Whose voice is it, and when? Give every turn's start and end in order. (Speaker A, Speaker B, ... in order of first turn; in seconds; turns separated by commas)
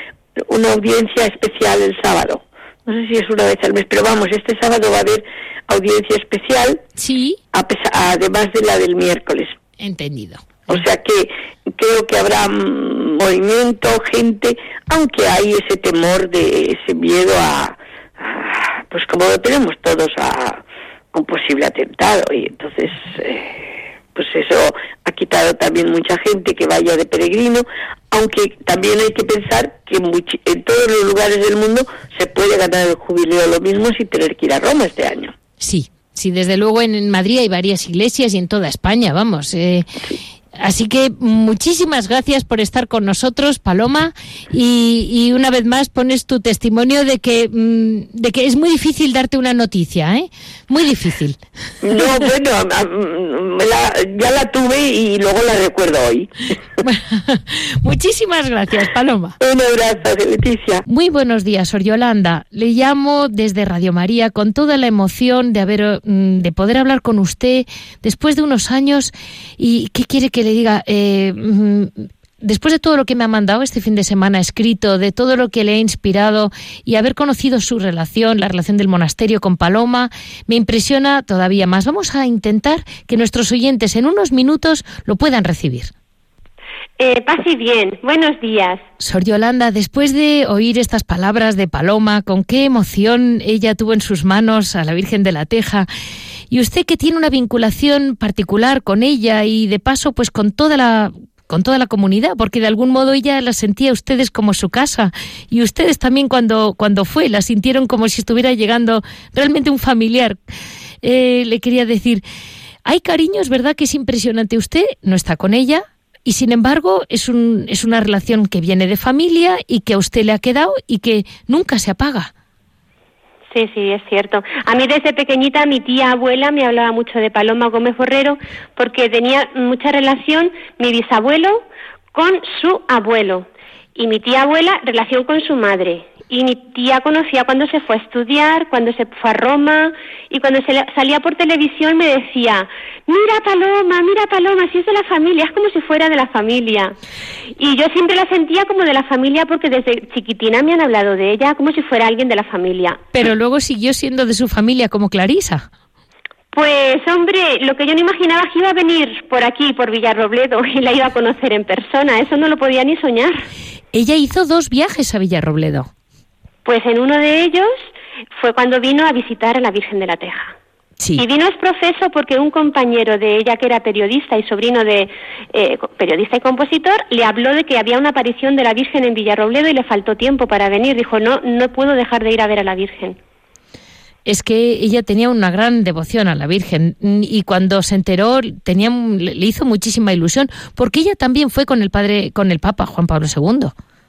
Speaker A: 0.4-6.8, Speaker B: 7.0-7.4, Speaker A: 7.5-9.5, Speaker B: 9.8-10.8, Speaker A: 10.7-35.3, Speaker B: 35.6-39.9, Speaker B: 40.6-51.4, Speaker A: 51.8-56.3, Speaker B: 56.8-59.4, Speaker A: 59.4-60.8, Speaker B: 60.9-85.9, Speaker C: 87.0-88.8, Speaker B: 89.0-95.9, Speaker B: 96.5-110.4, Speaker B: 111.0-112.2, Speaker B: 112.8-122.3, Speaker C: 123.5-146.9, Speaker C: 147.6-153.0, Speaker B: 153.1-155.7, Speaker C: 156.5-163.4, Speaker B: 163.9-165.9, Speaker C: 166.6-170.5, Speaker C: 171.2-183.2, Speaker B: 184.2-193.7